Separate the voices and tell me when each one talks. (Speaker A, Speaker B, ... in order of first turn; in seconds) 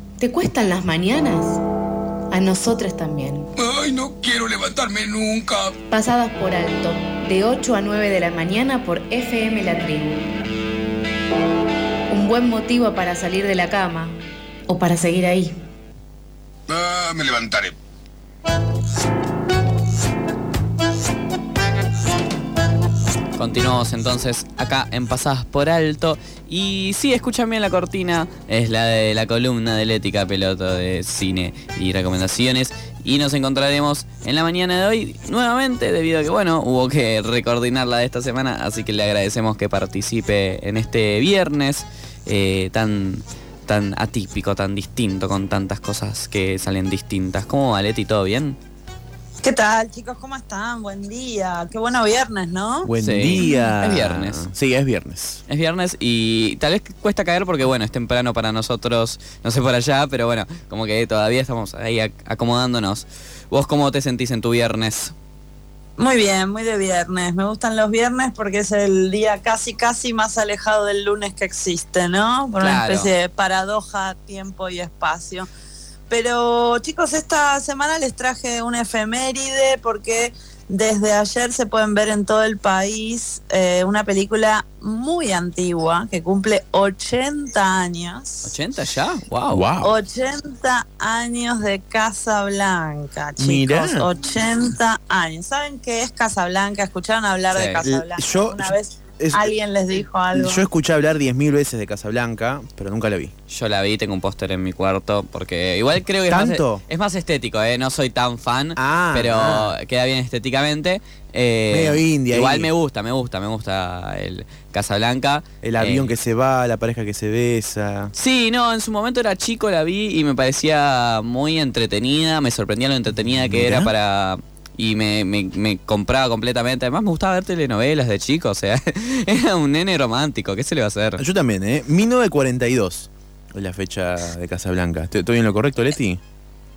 Speaker A: 0.2-1.6, 2.3-3.5, 5.9-10.3, 12.1-15.6
Speaker B: 3.5-5.7, 16.7-17.8
Speaker C: 23.4-48.6, 53.0-54.5, 55.5-65.1, 72.6-73.1, 88.4-89.7, 97.5-97.8, 103.5-116.1, 118.1-131.2
Speaker D: 49.4-52.9, 66.0-75.5, 76.1-88.5, 89.8-100.7
Speaker E: 52.8-55.4, 89.5-90.0, 93.4-94.1, 97.8-99.5, 100.3-103.3, 106.3-106.8, 108.8-109.7, 111.7-112.7, 115.6-118.1, 123.3-123.9, 131.2-136.2